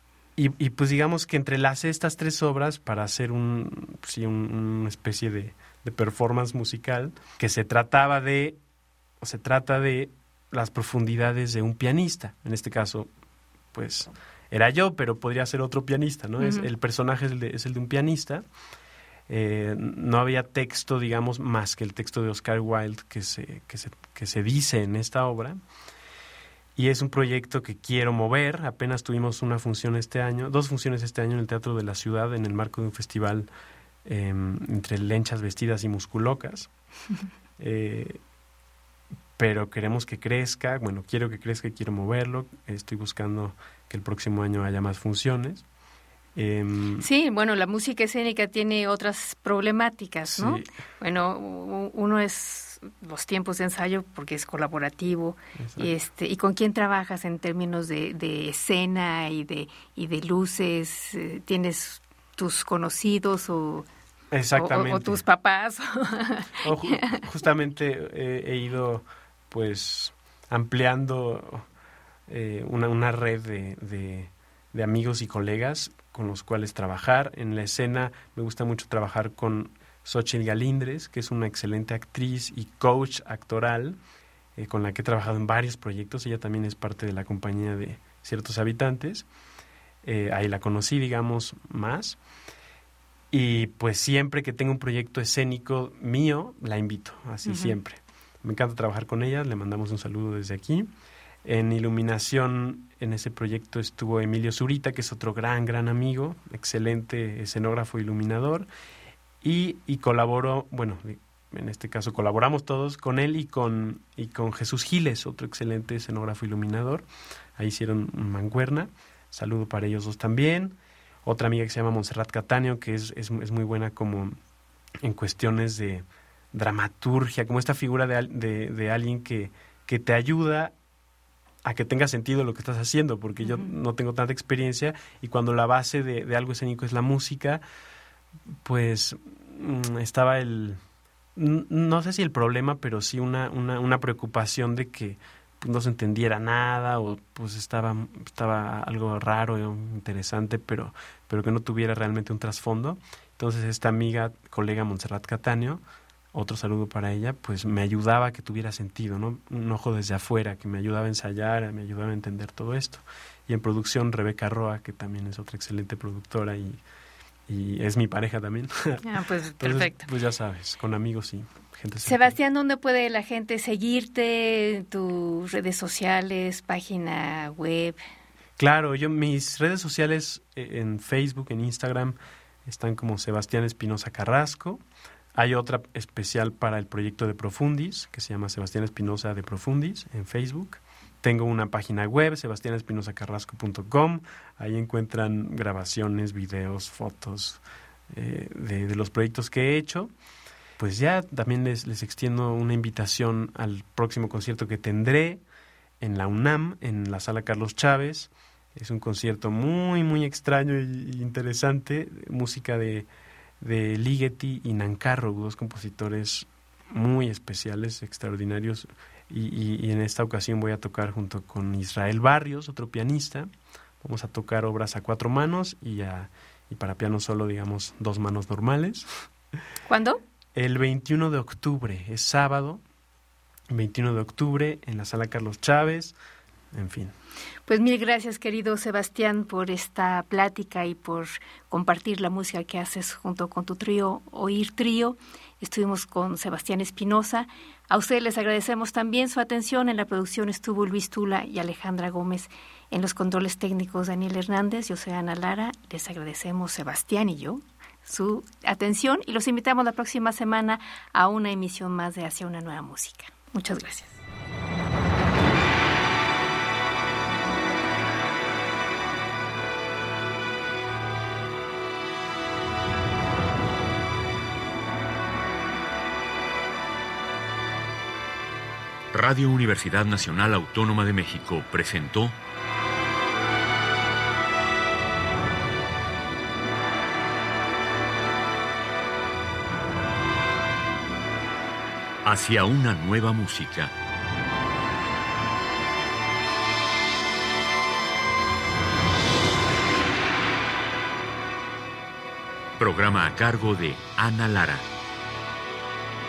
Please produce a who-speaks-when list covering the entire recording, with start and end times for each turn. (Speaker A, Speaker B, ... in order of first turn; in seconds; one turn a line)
Speaker A: 0.4-8.6
Speaker A: 9.2-13.1
Speaker A: 13.7-18.4
Speaker B: 16.4-16.7
Speaker A: 19.3-25.6
Speaker A: 26.8-33.5
Speaker A: 34.0-36.7
Speaker A: 37.6-38.2
Speaker A: 39.4-45.6
Speaker A: 46.4-47.0
Speaker B: 47.0-63.9
Speaker A: 50.3-50.7
Speaker A: 55.6-55.9
Speaker A: 64.3-65.2
Speaker B: 64.5-67.2
Speaker A: 66.6-71.7
Speaker A: 72.3-84.0
Speaker A: 84.6-89.3
Speaker A: 90.0-92.2
Speaker A: 93.3-100.9
Speaker B: 97.5-97.8
Speaker A: 101.4-108.7
Speaker A: 109.4-124.4
Speaker A: 125.0-130.7
Speaker A: 131.7-137.6
Speaker B: 133.4-133.7
Speaker A: 138.6-140.8
Speaker A: 141.3-166.8
Speaker A: 167.5-169.1
Speaker B: 169.0-170.1
Speaker A: 169.6-172.4
Speaker B: 172.0-178.0
Speaker A: 178.6-184.8
Speaker A: 185.3-200.1
Speaker A: 200.8-205.4
Speaker A: 206.0-213.1
Speaker A: 213.6-223.5
Speaker A: 224.0-229.2
Speaker B: 229.9-230.2
Speaker A: 230.6-232.8
Speaker A: 233.7-236.2
Speaker A: 236.7-237.1
Speaker B: 237.7-264.2
Speaker C: 279.1-282.4
Speaker C: 292.2-293.9
Speaker C: 302.8-304.9